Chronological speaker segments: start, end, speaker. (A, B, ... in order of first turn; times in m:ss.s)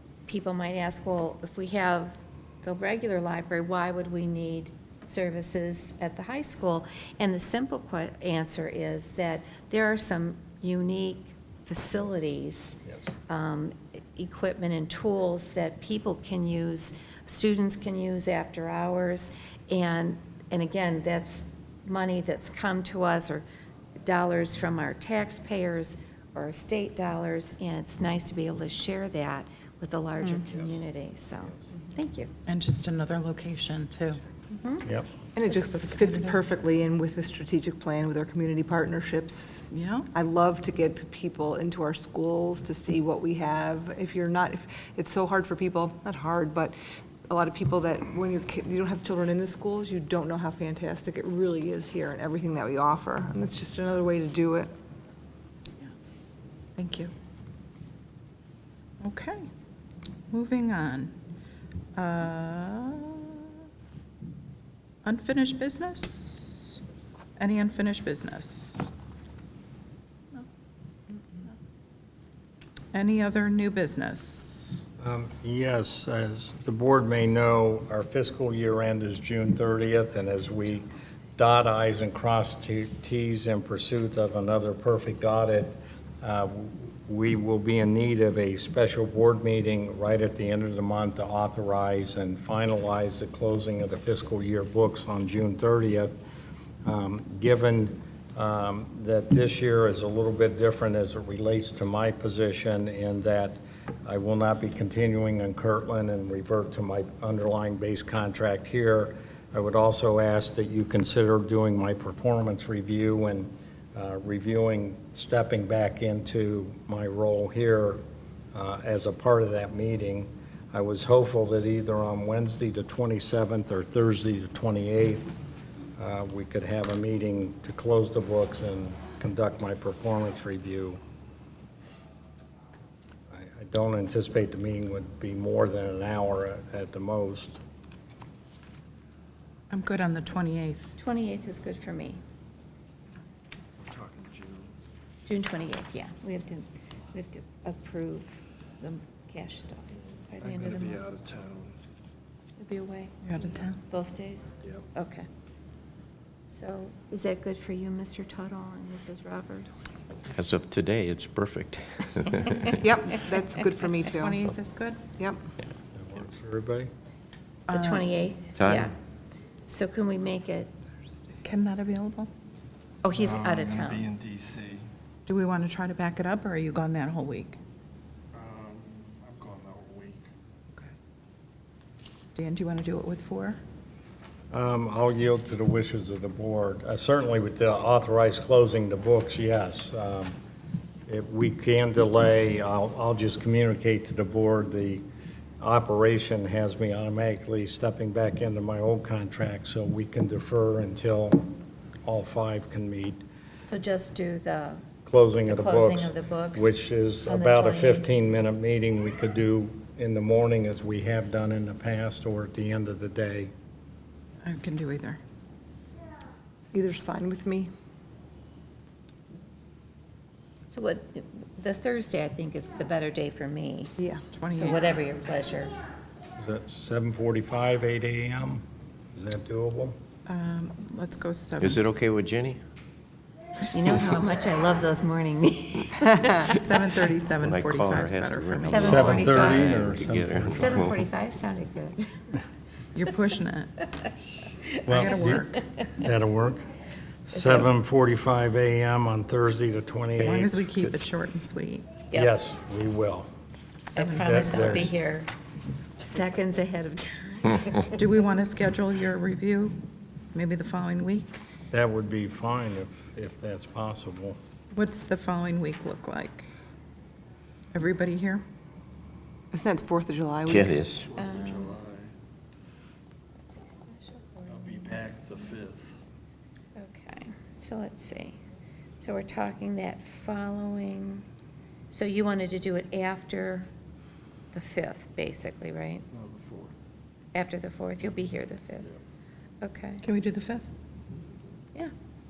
0:00.3-0:23.4 A
0:12.9-0:13.1 B
0:24.0-0:32.3 A
0:32.4-0:34.2 C
0:34.5-0:34.9 A
0:35.3-0:46.8 D
0:35.5-0:36.4 C
0:39.7-0:40.1 C
0:47.3-0:54.7 D
0:56.8-0:57.1 C
0:59.0-0:59.4 C
1:00.3-1:01.1 C
1:02.0-1:03.4 C
1:05.0-1:06.8 C
1:07.4-1:08.8 C
1:12.9-1:14.8 C
1:15.0-1:36.1 B
1:36.8-1:58.0 B
1:58.5-2:05.3 B
2:06.0-2:11.0 B
2:13.3-2:17.6 B
2:19.7-2:20.9 C
2:21.0-2:22.2 A
2:23.8-2:24.7 E
2:25.2-2:31.0 A
2:30.4-2:31.7 E
2:32.6-2:33.3 A
2:33.2-2:33.8 C
2:33.8-2:35.3 A
2:36.5-2:39.9 A
2:40.3-2:42.8 F
2:42.8-2:44.4 D
2:44.0-2:45.0 C
2:45.9-2:46.9 B
2:47.7-2:48.1 C
2:47.7-2:48.9 A
2:48.6-2:48.9 F
2:49.7-2:50.7 A
2:51.4-2:52.3 C
2:53.0-2:54.1 A
2:53.1-2:54.8 E
2:55.3-2:57.6 C
2:58.3-3:00.2 E
3:02.3-3:03.6 C
3:04.5-3:10.3 B
3:11.1-3:15.0 B
3:15.6-3:23.2 B
3:23.6-3:24.8 A
3:25.0-3:33.5 B
3:25.4-3:26.7 A
3:27.2-3:28.0 A
3:34.4-3:35.2 C
3:36.7-3:37.7 D
3:40.7-3:43.9 A
3:44.0-3:44.2 D
3:44.3-3:44.8 C
3:44.5-3:45.7 A
3:46.4-3:50.0 B
3:50.2-3:51.8 C
3:51.6-3:52.6 F
3:53.7-3:56.4 A
3:56.3-3:59.7 C
3:57.4-4:01.0 F
3:58.7-3:59.6 A
3:58.8-4:00.8 B
4:00.5-4:02.0 A
4:02.9-4:03.9 C
4:04.8-4:06.6 B
4:04.9-4:05.5 C
4:07.2-4:10.6 B
4:10.2-4:11.9 C
4:12.1-4:13.3 B
4:13.9-4:15.3 A
4:14.0-4:14.4 C
4:14.2-4:14.9 B
4:16.0-4:17.9 A
4:17.9-4:19.8 C
4:20.3-4:21.4 C
4:21.7-4:24.4 B
4:24.7-4:26.4 C
4:27.7-4:28.4 C
4:29.5-4:30.8 D
4:30.5-4:31.1 F
4:30.9-4:32.1 E
4:31.2-4:31.7 A
4:33.4-4:35.0 A
4:34.5-4:35.9 E
4:36.8-4:38.4 A
4:39.0-4:41.2 A
4:41.9-4:43.7 A
4:44.5-4:46.0 A
4:46.1-4:46.8 E
4:47.3-4:48.9 A
4:49.6-4:50.0 A
4:50.0-4:50.7 C